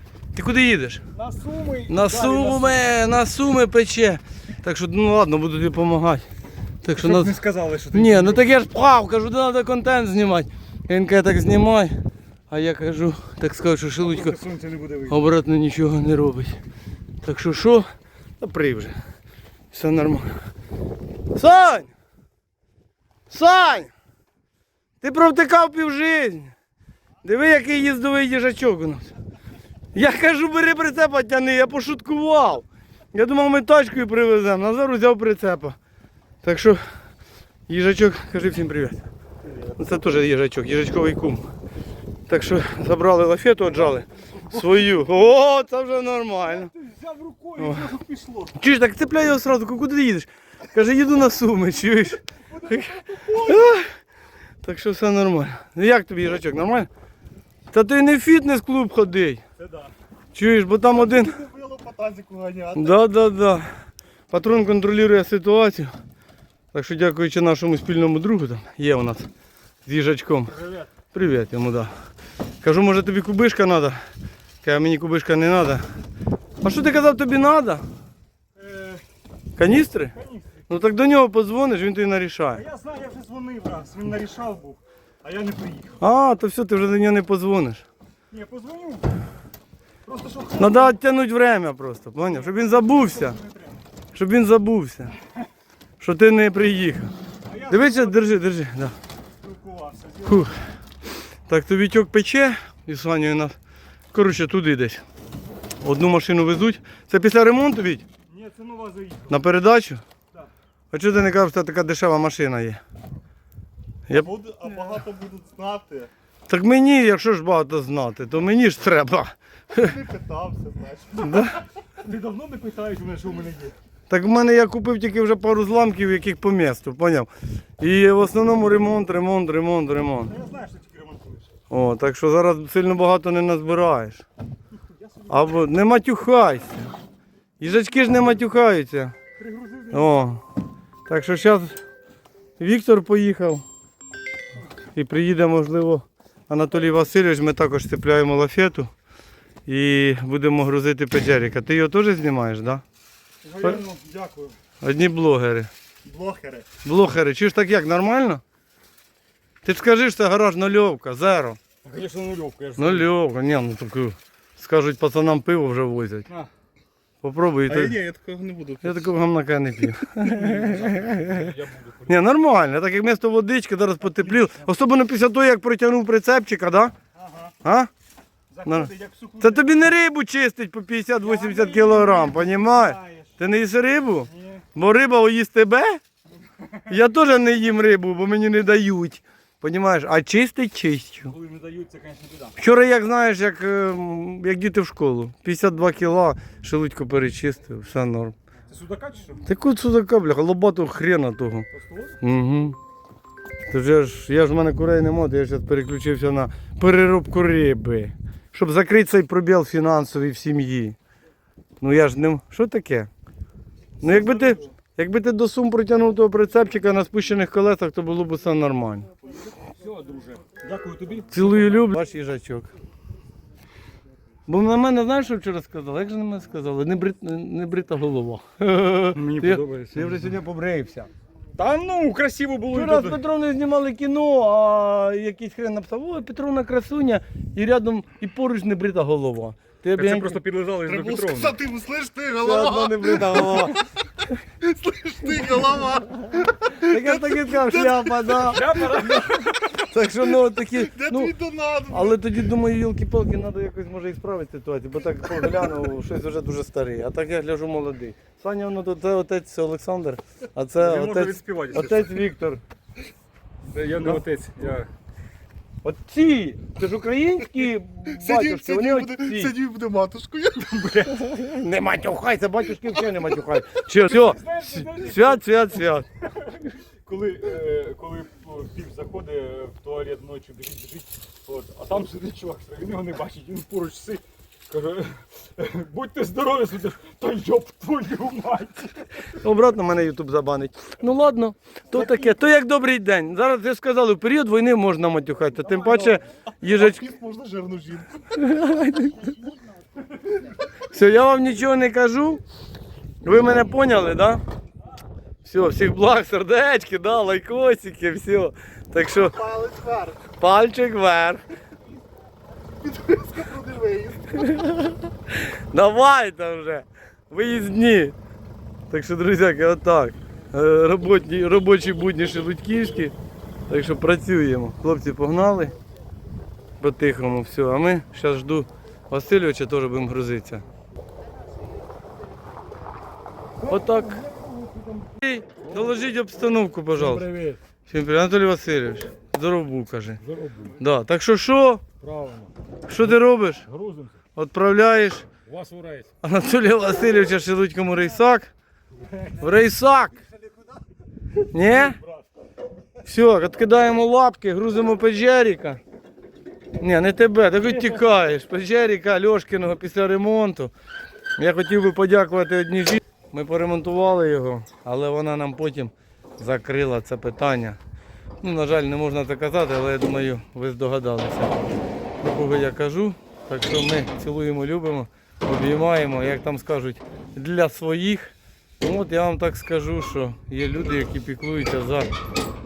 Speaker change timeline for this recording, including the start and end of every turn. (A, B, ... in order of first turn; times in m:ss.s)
0:00.3-0:01.0 A
0:01.1-0:02.8 B
0:01.9-0:06.2 A
0:06.8-0:07.3 A
0:07.0-0:08.4 B
0:07.9-0:12.0 A
0:12.5-0:14.4 A
0:14.0-0:15.2 B
0:15.1-0:16.6 A
0:17.2-0:17.9 A
0:18.4-0:18.9 A
0:19.7-0:20.3 A
0:21.3-0:21.9 A
0:23.3-0:23.9 A
0:25.0-0:26.5 A
0:27.2-0:29.1 A
0:29.9-0:35.8 A
0:36.4-0:36.8 A
0:37.7-0:39.1 A
0:39.8-0:41.4 A
0:42.3-0:46.7 A
0:46.4-0:48.6 B
0:47.6-0:47.9 A
0:48.5-0:53.9 A
0:52.6-0:53.5 C
0:54.6-0:56.9 A
0:57.7-0:59.4 A
0:59.6-0:59.9 B
1:00.3-1:01.4 A
1:00.8-1:03.0 C
1:02.7-1:03.7 A
1:04.3-1:05.9 A
1:06.7-1:09.3 A
1:09.8-1:10.6 A
1:10.5-1:10.9 B
1:11.1-1:11.9 A
1:12.6-1:14.0 A
1:14.6-1:15.8 A
1:16.6-1:17.8 A
1:18.6-1:19.0 B
1:19.6-1:20.1 A
1:20.1-1:20.6 B
1:20.7-1:22.6 A
1:22.5-1:26.0 B
1:26.0-1:27.8 A
1:28.3-1:29.1 B
1:30.0-1:30.9 B
1:30.5-1:33.4 A
1:32.3-1:33.8 B
1:34.1-1:35.1 A
1:36.0-1:37.1 A
1:37.4-1:38.3 B
1:37.7-1:38.9 A
1:39.4-1:40.5 B
1:40.2-1:40.6 A
1:41.5-1:43.6 A
1:44.1-1:45.0 A
1:45.8-1:48.0 A
1:48.3-1:49.4 B
1:49.3-1:50.0 A
1:50.9-1:52.8 A
1:54.1-1:56.1 C
1:56.5-2:00.0 A
1:59.7-2:01.6 C
2:01.2-2:01.6 A
2:02.0-2:03.8 B
2:04.1-2:10.3 A
2:10.3-2:11.5 B
2:11.7-2:14.2 A
2:14.9-2:15.5 B
2:15.3-2:16.9 A
2:17.6-2:19.1 A
2:19.4-2:20.3 B
2:19.9-2:20.4 A
2:21.1-2:21.8 A
2:22.6-2:23.6 A
2:24.9-2:28.9 A
2:29.6-2:32.8 A
2:33.4-2:34.6 B
2:34.8-2:35.7 A
2:36.0-2:36.7 B
2:36.8-2:38.4 A
2:39.6-2:41.6 A
2:41.8-2:43.1 B
2:42.8-2:46.3 A
2:47.2-2:48.0 A
2:47.7-2:49.1 C
2:48.8-2:56.9 A
2:50.3-2:52.2 B
2:57.1-2:57.5 B
2:57.6-2:57.9 A
2:58.5-2:59.6 B
2:58.6-3:06.0 A
3:01.2-3:03.3 B
3:04.3-3:04.6 B
3:06.8-3:11.3 A
3:11.2-3:12.6 B
3:12.6-3:18.3 A
3:18.7-3:19.4 B
3:19.4-3:21.7 A
3:21.7-3:22.2 B
3:22.2-3:22.8 A
3:23.7-3:31.0 A
3:31.8-3:33.1 A
3:34.0-3:39.1 A
3:34.0-3:34.7 B
3:39.7-3:41.6 B
3:41.3-3:42.7 A
3:44.5-3:51.1 A
3:49.1-3:50.2 B
3:51.6-3:53.2 B
3:52.7-4:00.4 A
4:00.0-4:01.6 B
4:00.8-4:03.9 C
4:02.4-4:03.9 A
4:04.6-4:08.8 C
4:06.7-4:11.4 A
4:08.5-4:09.6 B
4:10.7-4:12.3 C
4:11.9-4:22.6 A
4:20.8-4:22.1 B
4:23.7-4:24.9 B
4:25.8-4:29.5 A
4:28.1-4:30.8 C
4:30.6-4:31.3 B
4:31.2-4:36.1 A
4:33.9-4:35.5 B
4:36.4-4:49.2 B
4:49.3-4:57.0 A
4:55.9-4:56.2 B
4:56.6-4:58.1 C
4:58.3-4:59.3 A
5:00.9-5:02.4 A
5:03.2-5:04.4 A
5:05.4-5:09.4 A
5:09.2-5:10.3 C
5:10.4-5:11.4 A
5:12.7-5:14.4 C
5:14.3-5:18.1 A
5:18.9-5:23.1 A
5:23.7-5:25.8 A
5:26.8-5:30.6 A
5:33.6-5:36.0 B
5:33.6-5:34.2 A
5:35.2-5:37.3 A
5:36.9-5:37.6 B
5:37.9-5:40.2 A
5:40.2-5:40.8 B
5:40.7-5:41.8 A
5:42.0-5:42.5 B
5:42.9-5:43.6 A
5:43.6-5:44.2 B
5:44.3-5:45.2 A
5:45.5-5:46.1 B
5:46.2-5:48.5 A
5:49.3-5:50.2 A
5:51.5-5:52.0 A
5:51.6-5:52.1 B
5:53.0-5:55.8 A
5:56.8-6:00.7 A
6:01.4-6:07.8 A
6:08.4-6:11.6 A
6:12.2-6:22.1 A